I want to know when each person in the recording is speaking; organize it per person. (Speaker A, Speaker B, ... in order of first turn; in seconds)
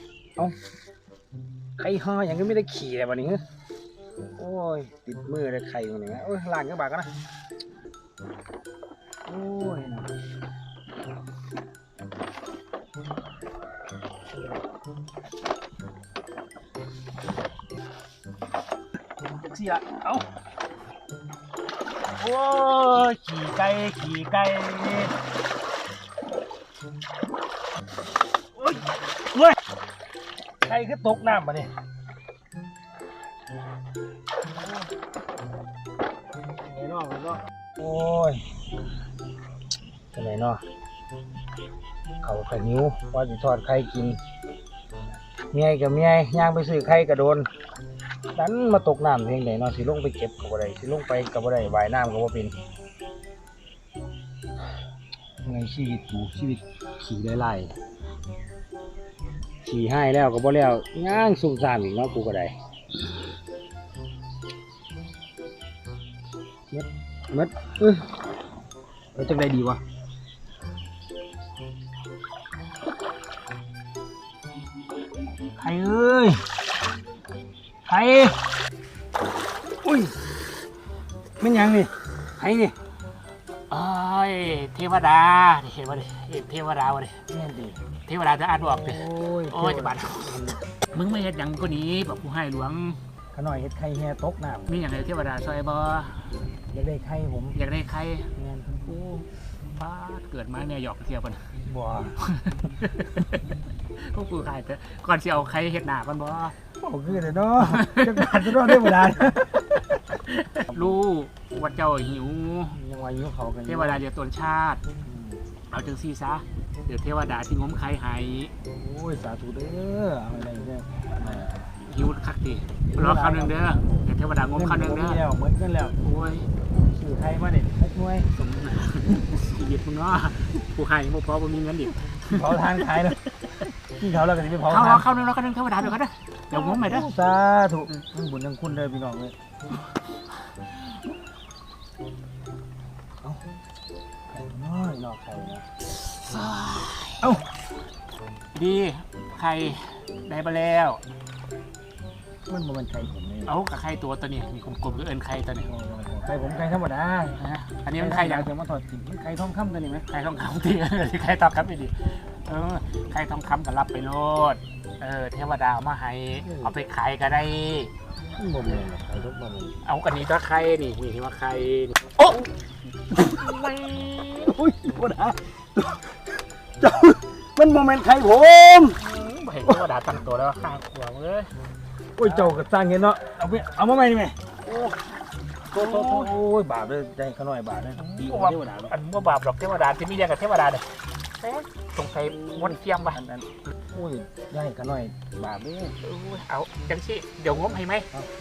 Speaker A: 1.8-3.4, 4.4-7.1, 9.3-10.1, 19.5-20.2, 22.2-25.1, 30.6-31.7, 36.7-38.4, 40.1-40.6, 42.2-44.2, 45.5-47.5, 48.3-52.6, 55.4-57.7, 59.6-62.5, 66.7-68.1, 69.2-69.8, 75.6-76.4, 77.9-78.4, 79.8-80.2, 81.4-82.8, 87.3-87.8, 88.6-90.6, 93.3-94.8, 96.7-97.6, 98.4-99.0, 101.6-102.2, 106.8-109.7, 110.7-111.0, 112.7-114.0, 115.0-115.4, 118.7-121.7, 122.9-124.0, 124.5-126.0, 126.8-128.3, 132.3-133.2, 133.8-135.1, 136.5-139.3, 144.3-145.7, 147.2-147.5, 152.4-153.5, 155.6-157.4, 157.9-160.1, 166.4-166.8, 168.3-169.7, 174.4-176.2, 176.8-179.0, 182.2-184.9, 185.7-188.9, 192.3-195.9
Speaker B: 83.7-87.2, 88.0-93.0, 94.7-96.3, 97.5-98.3, 98.9-101.5, 102.2-106.6, 107.6-112.8, 113.7-114.8, 115.7-118.5, 121.2-125.2, 126.0-126.5, 128.3-133.7, 134.6-137.1, 145.9-147.3, 148.5-151.0, 153.4-155.7, 157.3-158.5, 160.0-167.9, 169.8-172.5, 173.1-174.5, 178.9-181.5, 182.2-182.5, 185.7-186.4, 187.9-193.2, 196.0-198.1